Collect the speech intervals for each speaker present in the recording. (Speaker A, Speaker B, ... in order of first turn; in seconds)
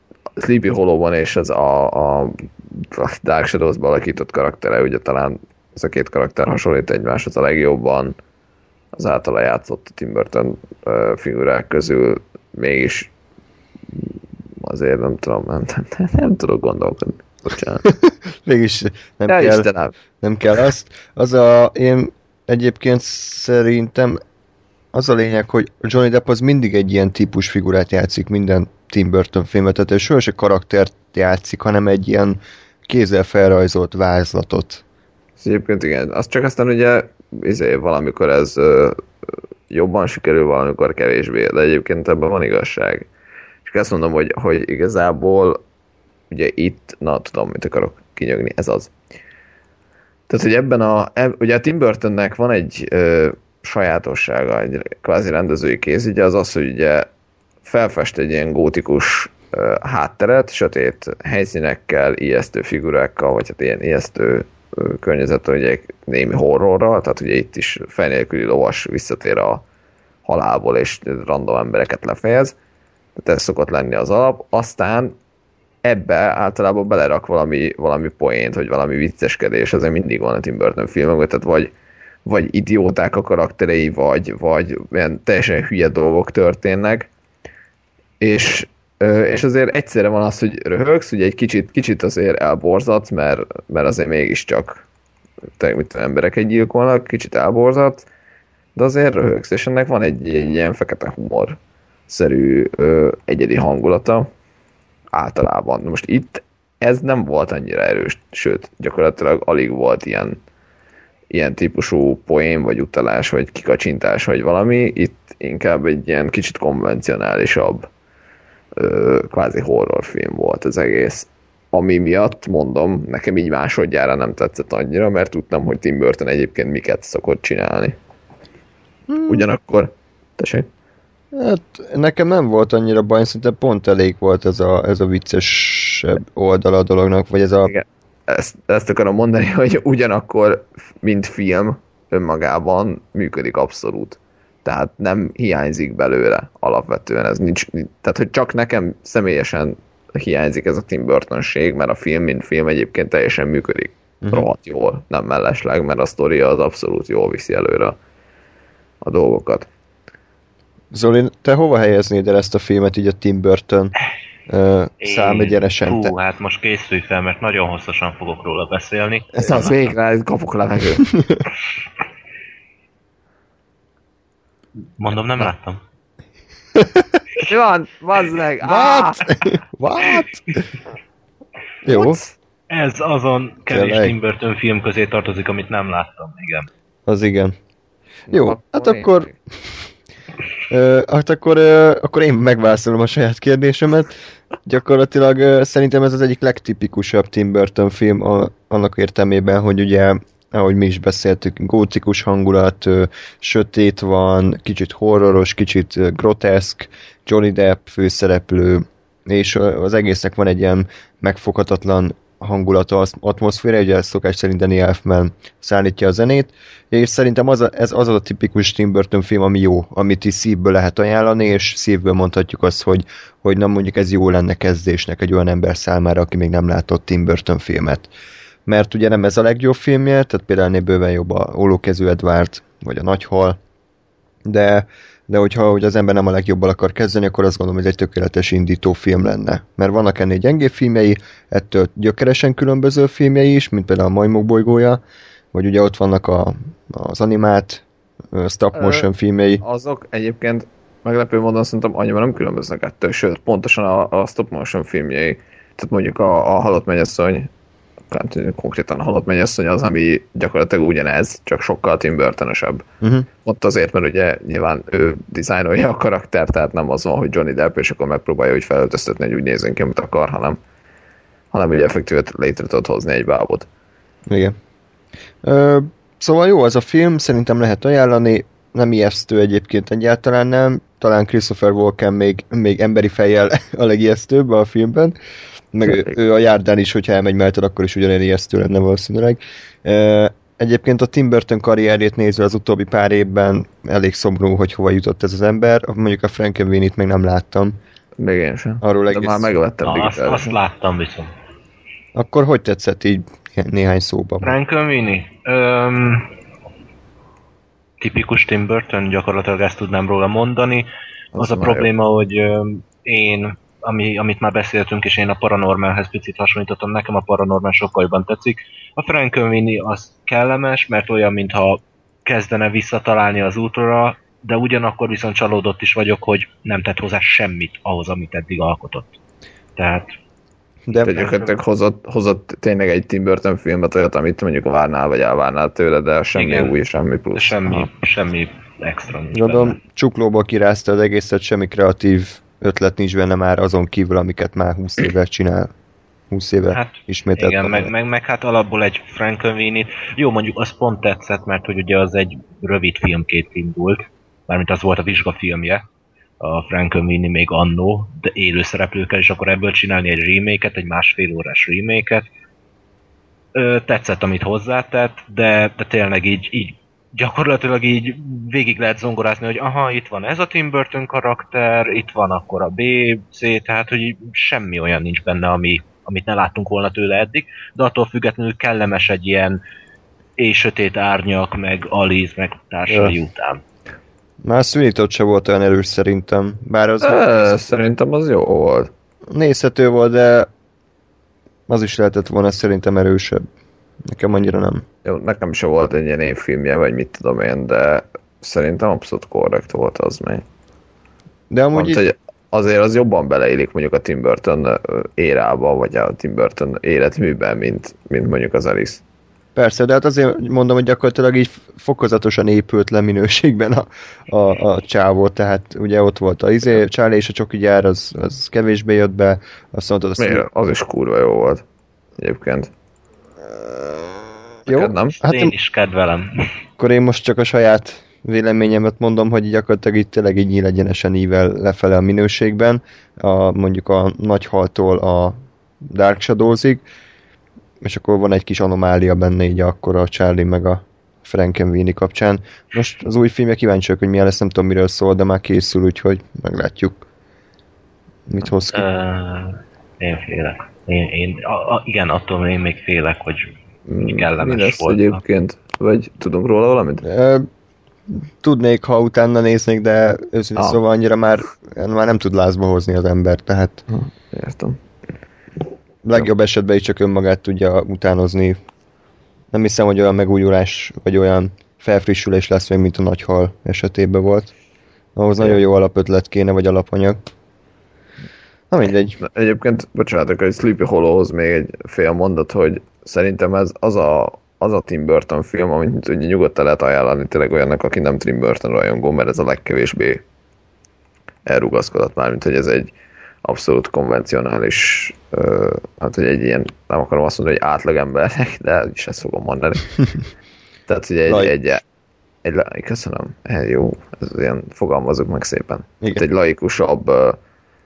Speaker A: 0.4-8.2, 8.9-13.1, 13.9-17.8, 19.3-19.9, 35.4-39.0, 39.7-43.1, 43.6-45.6, 46.3-48.9, 50.3-57.1, 57.6-69.6, 70.2-72.5, 73.2-75.1, 75.8-81.7, 82.2-87.1, 88.2-94.8, 95.6-98.1, 98.8-101.6, 102.1-104.3, 105.1-110.4, 111.3-117.9, 118.8-128.0, 129.3-130.7, 137.7-158.0, 159.0-159.7, 169.4-171.1, 177.4-179.3, 181.9-182.3, 188.3-189.3, 248.8-249.1, 249.6-257.5, 258.1-262.9, 263.4-270.6, 271.5-273.7, 298.2-300.6, 311.3-311.9, 331.0-337.9, 387.0-388.9, 395.0-400.4, 401.7-409.0, 420.2-421.6, 422.2-422.7, 424.7-425.2, 453.9-457.1, 463.9-464.8, 479.2-490.2, 491.5-492.9, 493.4-500.0, 500.9-501.8, 502.4-507.4
Speaker B: 17.8-19.7, 20.2-24.2, 24.9-34.8, 129.1-129.4, 131.3-137.7, 154.2-154.5, 160.9-163.9, 164.5-166.1, 171.1-171.4, 176.7-177.2, 178.6-180.4, 181.8-182.2, 183.7-184.1, 187.1-187.5, 188.3-189.3, 190.7-228.1, 228.7-233.6, 234.4-245.0, 245.5-249.6, 263.0-263.3, 274.3-274.6, 275.4-285.1, 285.7-297.8, 298.8-299.5, 302.1-304.6, 330.9-331.2, 339.3-345.7, 346.3-347.9, 382.9-383.1, 384.4-387.5, 389.3-390.5, 391.7-393.4, 394.1-394.8, 401.5-402.0, 409.6-420.4, 423.7-425.5, 426.8-436.8, 437.8-447.0, 448.3-448.8, 457.0-457.5, 458.1-463.8, 466.0-468.6, 469.5-474.5, 475.1-477.2, 478.7-479.1, 501.3-501.5
Speaker C: 165.0-169.9, 175.0-175.8, 182.7-186.7, 299.8-301.3, 304.4-306.3, 308.0-329.1, 329.8-330.1, 336.3-336.7, 337.3-339.8, 346.7-355.8, 356.4-362.2, 363.5-379.6, 380.4-383.6, 425.2-426.3, 448.7-455.2